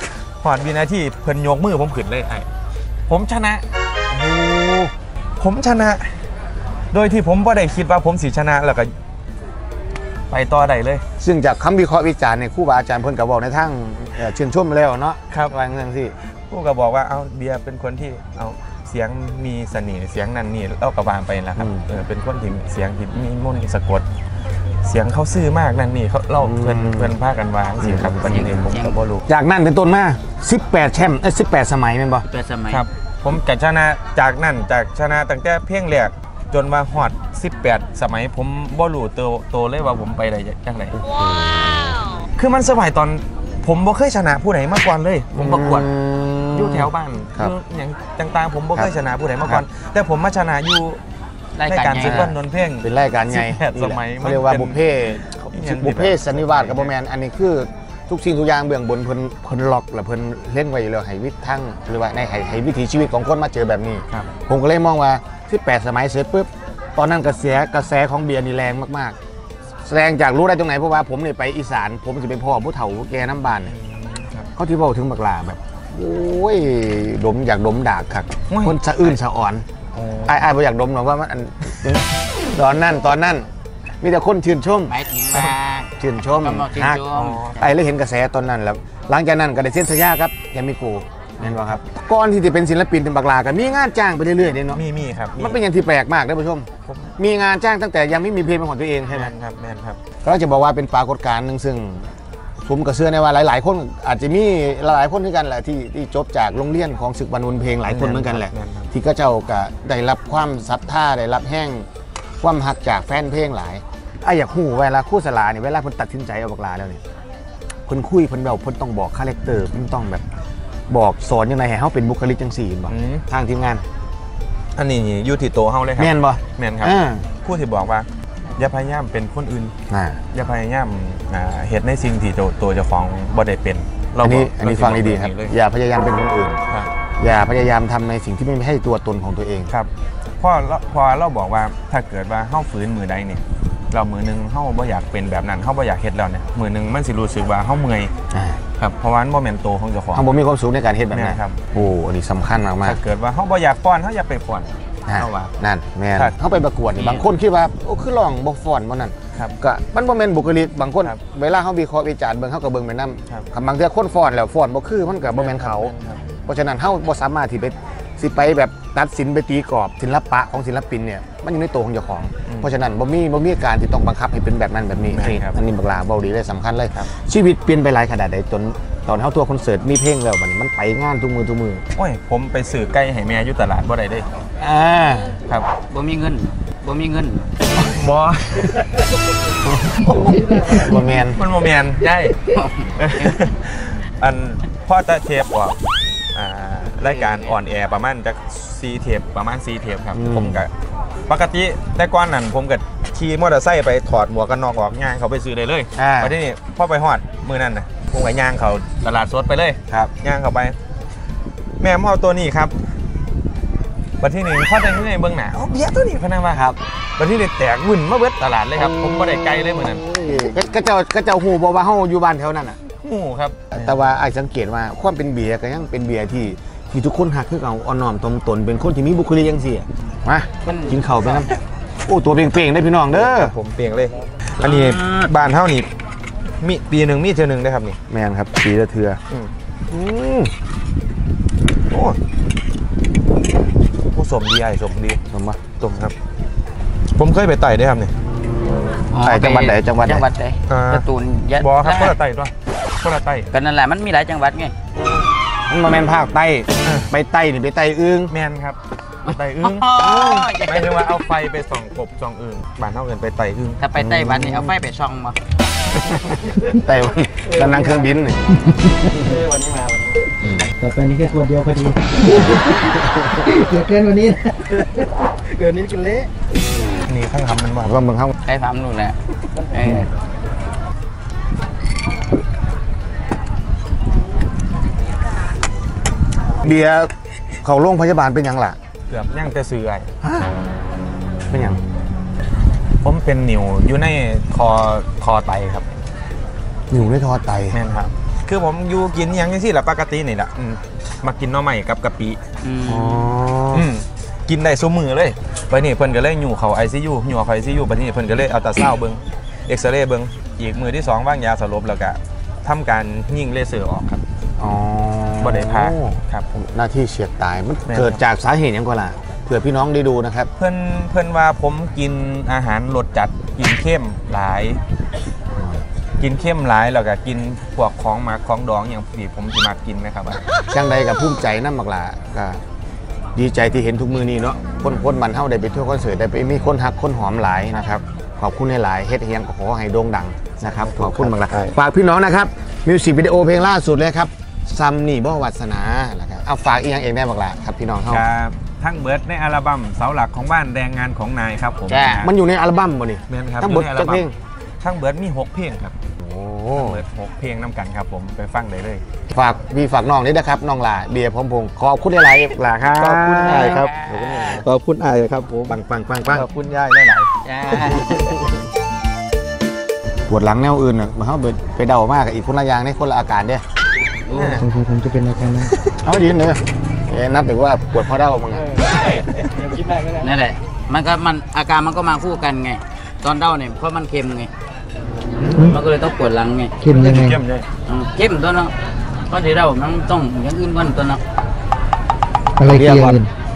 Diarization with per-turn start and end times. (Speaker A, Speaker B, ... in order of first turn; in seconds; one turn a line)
Speaker A: 0.4-2.5
Speaker A: 3.1-3.6
Speaker B: 4.1-4.9
Speaker A: 5.4-6.2
Speaker A: 6.9-8.9
Speaker A: 10.3-11.0
Speaker B: 11.2-16.1
Speaker A: 16.5-24.1
Speaker B: 21.6-21.9
Speaker A: 24.8-29.2
Speaker B: 26.4-27.2
Speaker B: 27.8-28.7
Speaker C: 28.2-29.0
Speaker B: 29.2-32.2
Speaker C: 32.3-32.8
Speaker A: 32.7-40.9
Speaker B: 40.9-42.0
Speaker A: 42.4-45.9
Speaker B: 45.3-47.5
Speaker A: 46.5-51.0
Speaker C: 51.6-52.2
Speaker A: 51.6-54.8
Speaker B: 52.0-69.2
Speaker A: 55.5-56.9
Speaker B: 69.8-73.7
Speaker A: 73.7-74.5
Speaker B: 74.6-79.6
Speaker A: 78.5-78.8
Speaker A: 79.9-80.4
Speaker B: 80.2-83.5
Speaker B: 84.0-85.5
Speaker C: 84.9-87.5
Speaker B: 86.0-94.8
Speaker A: 87.1-87.7
Speaker A: 91.4-91.8
Speaker A: 94.7-95.6
Speaker B: 95.3-99.3
Speaker A: 96.9-97.1
Speaker A: 99.1-100.0
Speaker B: 100.2-111.9
Speaker A: 107.8-108.9
Speaker B: 112.4-117.0
Speaker B: 117.9-120.2
Speaker B: 120.9-123.8
Speaker A: 122.9-123.2
Speaker A: 124.8-129.7
Speaker B: 126.0-127.3
Speaker B: 129.9-130.2
Speaker A: 130.3-135.5
Speaker B: 134.2-136.6
Speaker B: 137.2-139.7
Speaker A: 139.7-148.1
Speaker B: 148.3-148.6
Speaker A: 148.8-150.3
Speaker B: 150.1-153.0
Speaker A: 151.1-151.7
Speaker A: 152.8-155.5
Speaker B: 155.1-165.9
Speaker A: 165.3-166.2
Speaker B: 166.4-181.8
Speaker A: 172.4-172.7
Speaker A: 175.1-175.6
Speaker A: 181.9-184.3
Speaker B: 184.6-185.4
Speaker C: 185.9-187.4
Speaker A: 187.8-189.1
Speaker B: 189.7-191.4
Speaker A: 190.0-192.4
Speaker C: 192.4-193.4
Speaker A: 192.9-195.8
Speaker A: 196.3-200.7
Speaker B: 200.1-200.7
Speaker A: 201.3-210.8
Speaker B: 206.0-206.3
Speaker A: 211.8-212.7
Speaker A: 214.2-220.1
Speaker B: 218.8-222.8
Speaker A: 222.9-224.1
Speaker B: 223.7-231.5
Speaker C: 230.6-231.6
Speaker B: 232.1-233.5
Speaker A: 233.1-235.9
Speaker C: 234.6-235.3
Speaker A: 236.6-238.0
Speaker B: 238.1-239.2
Speaker B: 239.9-240.5
Speaker A: 241.9-242.2
Speaker A: 244.1-246.1
Speaker B: 245.3-245.6
Speaker A: 247.2-248.1
Speaker C: 249.1-252.1
Speaker B: 249.2-250.2
Speaker A: 250.7-251.1
Speaker A: 251.6-253.5
Speaker C: 253.5-254.7
Speaker B: 255.7-258.3
Speaker A: 256.8-257.1
Speaker A: 258.3-263.8
Speaker C: 259.2-260.9
Speaker B: 259.9-260.5
Speaker C: 263.8-265.4
Speaker B: 263.9-264.8
Speaker B: 266.1-268.4
Speaker D: 267.6-268.1
Speaker D: 268.6-270.2
Speaker B: 270.4-270.7
Speaker D: 270.8-276.3
Speaker A: 277.0-278.0
Speaker B: 277.8-278.3
Speaker C: 278.4-280.1
Speaker B: 286.6-287.1
Speaker B: 287.6-288.8
Speaker A: 289.1-290.1
Speaker B: 290.2-290.5
Speaker B: 291.5-291.8
Speaker A: 293.0-295.9
Speaker B: 296.9-297.8
Speaker A: 297.7-302.4
Speaker C: 302.6-303.3
Speaker B: 302.8-303.9
Speaker A: 303.7-314.2
Speaker B: 314.6-320.5
Speaker A: 315.4-316.5
Speaker A: 317.9-318.2
Speaker A: 320.6-324.8
Speaker B: 325.5-325.9
Speaker A: 326.2-330.4
Speaker B: 330.7-332.6
Speaker B: 333.4-348.2
Speaker A: 340.7-341.7
Speaker A: 348.1-352.3
Speaker C: 351.9-352.3
Speaker B: 352.2-354.3
Speaker A: 353.3-354.3
Speaker A: 354.8-355.9
Speaker B: 356.2-357.0
Speaker A: 356.7-359.0
Speaker B: 359.3-364.6
Speaker A: 362.5-365.8
Speaker C: 363.4-364.6
Speaker B: 365.7-366.5
Speaker A: 366.3-367.3
Speaker C: 367.4-368.3
Speaker B: 370.3-373.6
Speaker C: 374.3-374.6
Speaker A: 374.3-374.6
Speaker D: 374.5-375.8
Speaker B: 375.9-378.7
Speaker C: 380.1-384.5
Speaker C: 385.5-386.8
Speaker D: 386.8-387.4
Speaker A: 386.9-387.6
Speaker C: 387.9-388.7
Speaker C: 389.3-391.2
Speaker D: 392.6-393.3
Speaker B: 392.7-393.2